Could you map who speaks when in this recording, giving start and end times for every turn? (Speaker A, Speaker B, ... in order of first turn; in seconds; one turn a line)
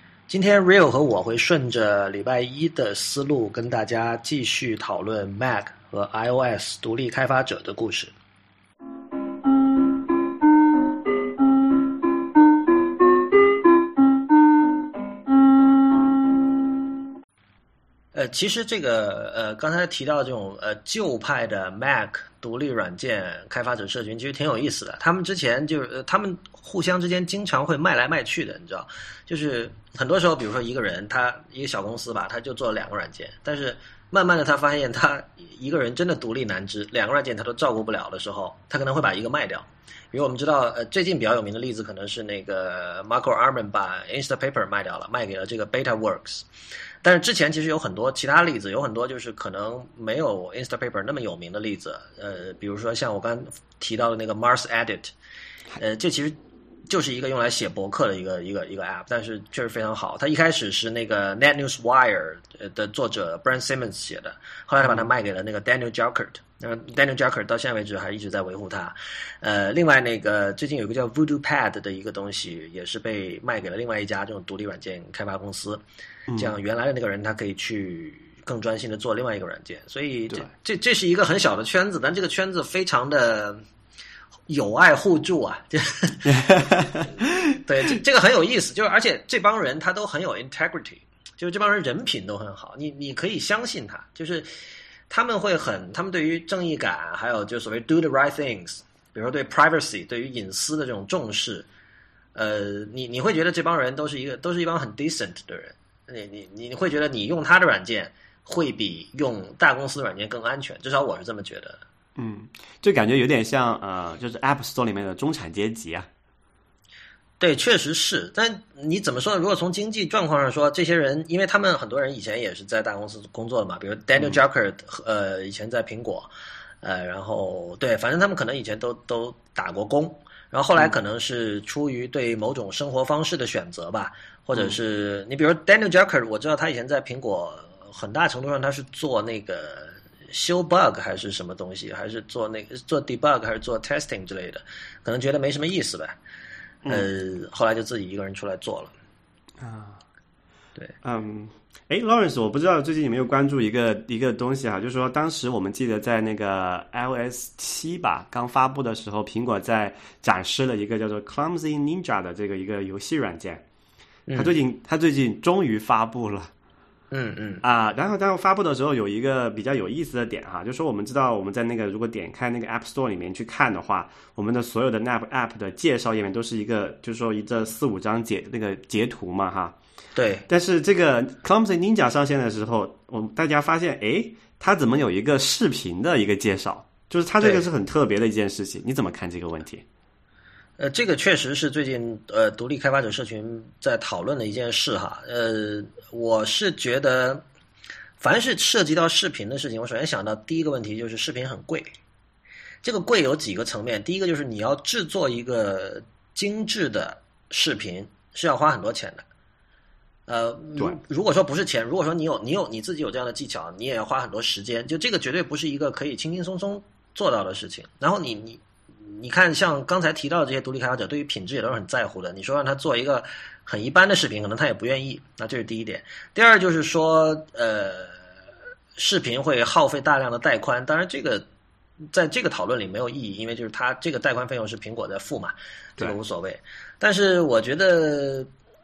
Speaker A: 0.3-8.1
Speaker A: 18.1-46.5
Speaker A: 47.0-55.1
Speaker A: 55.8-56.4
Speaker A: 56.9-75.8
Speaker A: 76.3-83.6
Speaker A: 84.5-86.6
Speaker B: 86.2-87.0
Speaker A: 87.6-94.5
Speaker A: 95.1-101.7
Speaker A: 102.3-111.8
Speaker B: 112.2-116.1
Speaker A: 117.4-126.3
Speaker A: 126.8-146.1
Speaker A: 146.9-148.9
Speaker B: 149.6-150.0
Speaker B: 151.0-163.6
Speaker A: 164.3-164.5
Speaker B: 164.3-166.5
Speaker A: 167.1-167.6
Speaker B: 167.6-179.8
Speaker A: 180.1-180.4
Speaker B: 180.5-189.8
Speaker A: 187.4-187.7
Speaker A: 190.8-197.4
Speaker A: 198.2-201.9
Speaker A: 202.8-209.2
Speaker A: 210.3-228.2
Speaker A: 228.9-231.4
Speaker A: 232.1-238.5